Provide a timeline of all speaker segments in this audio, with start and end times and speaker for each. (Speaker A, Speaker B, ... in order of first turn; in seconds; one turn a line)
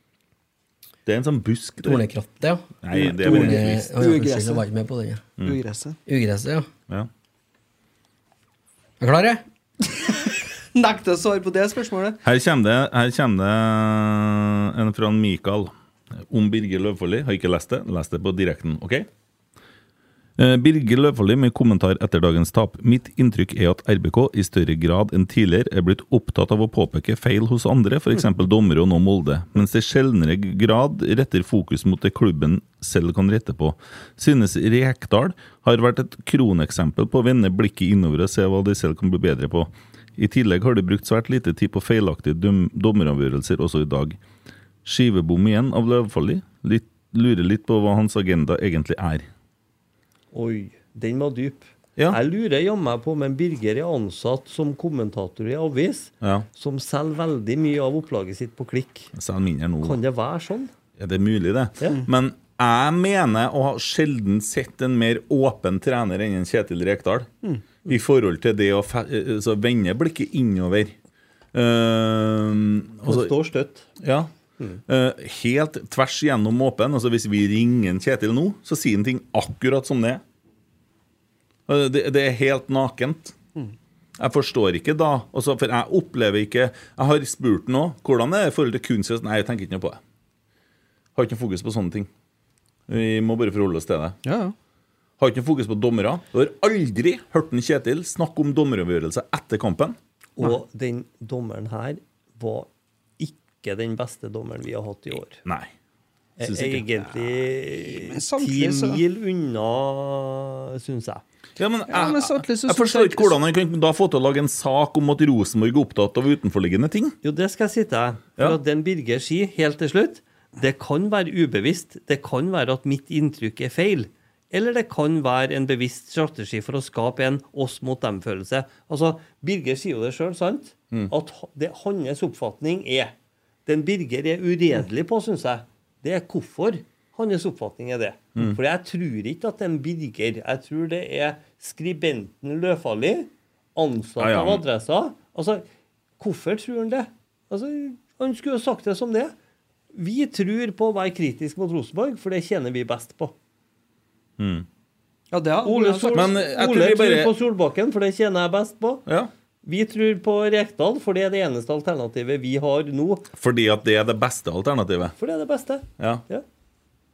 Speaker A: 1.1-2.0
Speaker B: 1.8-5.2
Speaker A: 2.8-4.0
Speaker C: 3.0-4.6
Speaker C: 5.4-6.0
Speaker B: 6.1-6.7
Speaker B: 9.0-9.4
Speaker C: 10.7-12.2
Speaker A: 12.2-19.1
Speaker A: 20.4-44.2
Speaker A: 44.8-49.3
Speaker D: 50.3-59.1
Speaker A: 56.2-56.5
Speaker A: 59.1-60.0
Speaker D: 59.8-60.7
Speaker A: 61.0-67.3
Speaker A: 67.8-70.9
Speaker A: 71.5-73.3
Speaker D: 73.0-73.9
Speaker A: 74.0-74.3
Speaker A: 74.9-80.2
Speaker A: 81.7-83.3
Speaker A: 84.2-90.0
Speaker A: 91.2-92.1
Speaker A: 92.9-94.2
Speaker C: 94.2-94.5
Speaker A: 95.2-100.0
Speaker D: 100.4-105.4
Speaker A: 105.4-105.7
Speaker D: 106.4-111.2
Speaker A: 106.4-106.8
Speaker C: 107.5-109.0
Speaker A: 111.6-117.2
Speaker C: 111.9-113.4
Speaker D: 117.2-133.1
Speaker D: 133.7-145.6
Speaker A: 144.2-144.6
Speaker D: 146.2-149.3
Speaker D: 149.9-153.3
Speaker A: 154.4-154.7
Speaker C: 155.3-156.3
Speaker D: 155.6-159.0
Speaker A: 156.1-157.3
Speaker A: 159.1-159.3
Speaker D: 159.6-163.3
Speaker A: 163.3-165.1
Speaker D: 165.2-166.4
Speaker A: 166.0-166.2